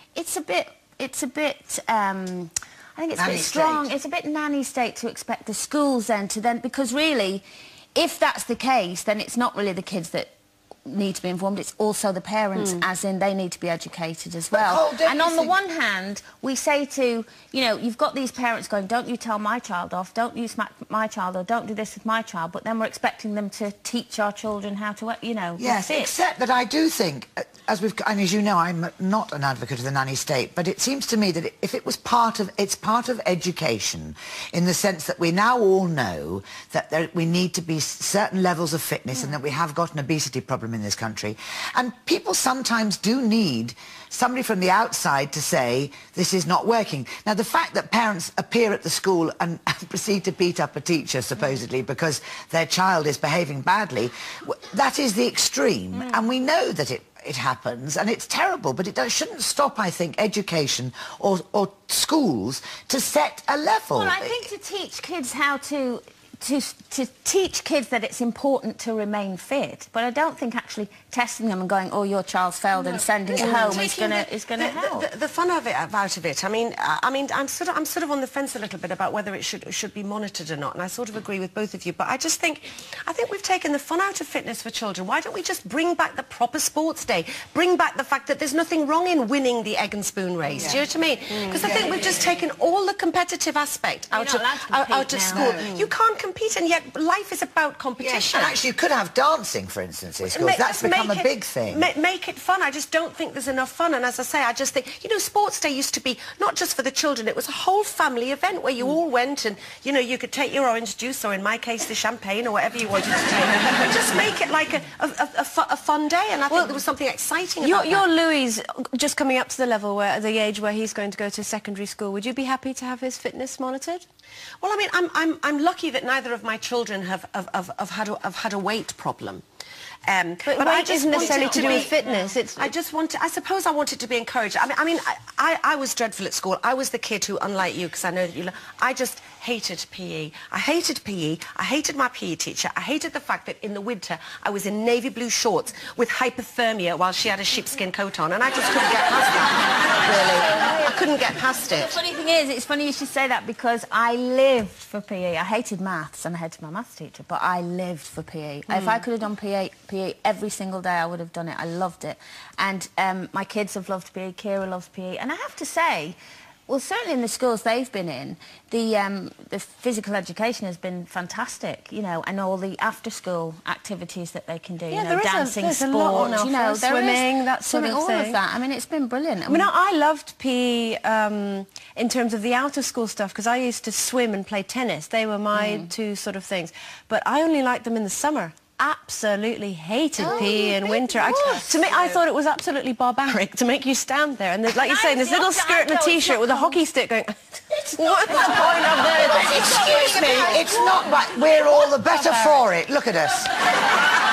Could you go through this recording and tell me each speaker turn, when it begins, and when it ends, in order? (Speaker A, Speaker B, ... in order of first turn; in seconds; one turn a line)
Speaker A: 0.1-10.3
Speaker B: 3.1-3.9
Speaker A: 10.8-26.1
Speaker C: 12.6-12.8
Speaker B: 14.5-15.6
Speaker B: 25.6-64.4
Speaker A: 55.9-56.2
Speaker A: 63.9-75.1
Speaker D: 73.3-98.5
Speaker C: 73.4-73.8
Speaker C: 91.3-92.0
Speaker A: 94.1-95.8
Speaker B: 95.3-95.7
Speaker C: 95.4-95.8
Speaker B: 98.0-101.9
Speaker D: 100.2-118.0
Speaker C: 116.5-116.8
Speaker C: 117.6-124.0
Speaker D: 124.6-129.4
Speaker D: 130.1-151.9
Speaker A: 130.5-132.3
Speaker C: 130.6-132.7
Speaker A: 151.8-179.7
Speaker C: 174.9-178.4
Speaker C: 179.5-200.7
Speaker A: 185.5-185.9
Speaker A: 190.2-192.1
Speaker A: 194.8-196.8
Speaker A: 198.2-200.9
Speaker B: 199.4-203.5